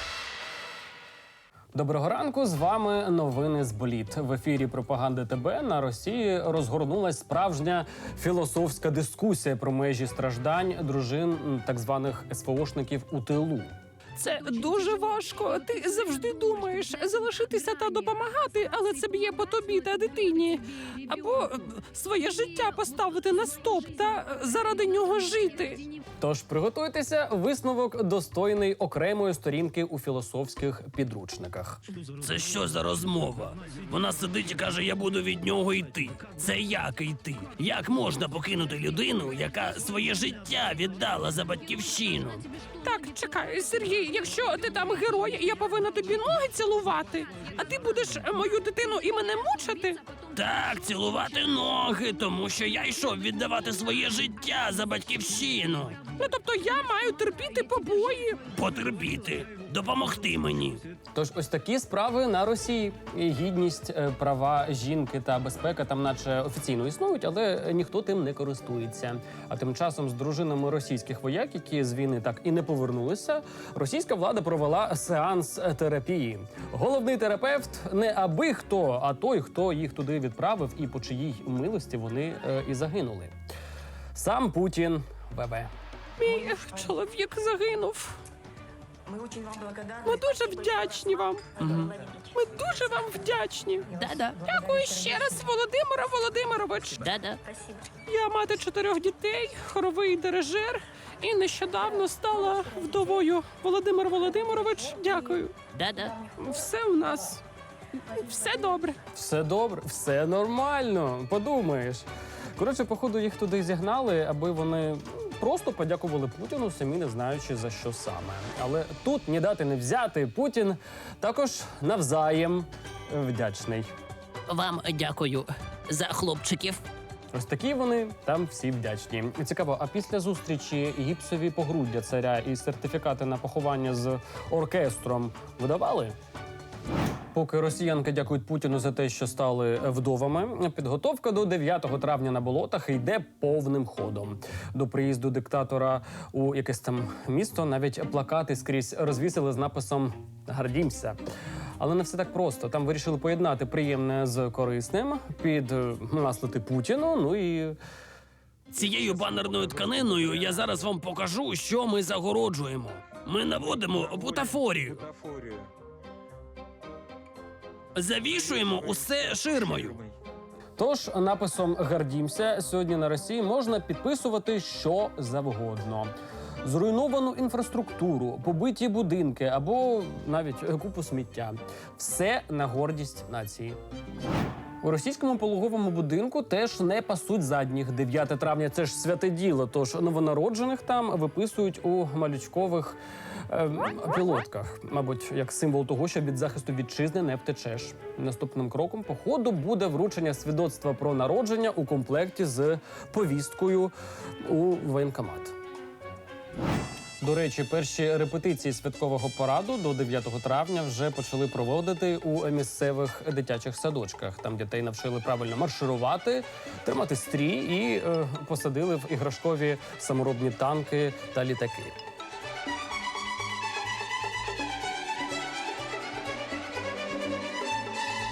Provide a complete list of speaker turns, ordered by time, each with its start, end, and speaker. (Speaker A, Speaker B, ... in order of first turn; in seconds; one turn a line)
Speaker A: 1.7-13.7
Speaker B: 14.2-25.9
Speaker A: 26.2-31.8
Speaker C: 32.2-42.5
Speaker B: 42.8-50.0
Speaker C: 50.3-56.1
Speaker B: 56.1-58.5
Speaker C: 58.5-60.8
Speaker A: 61.1-83.3
Speaker A: 84.1-85.7
Speaker B: 86.2-88.2
Speaker B: 90.0-91.5
Speaker C: 91.6-91.9
Speaker B: 92.2-97.1
Speaker C: 94.0-94.4
Speaker C: 97.0-97.4
Speaker B: 98.0-105.5
Speaker C: 105.7-106.2
Speaker B: 106.3-107.4
Speaker B: 108.0-109.0
Speaker A: 109.1-123.9
Speaker C: 124.5-126.8
Speaker A: 127.3-136.2
Speaker A: 137.3-151.2
Speaker A: 151.8-157.8
Speaker C: 158.7-165.1
Speaker C: 167.9-170.0
Speaker A: 170.8-183.8
Speaker A: 184.8-205.5
Speaker A: 207.2-221.9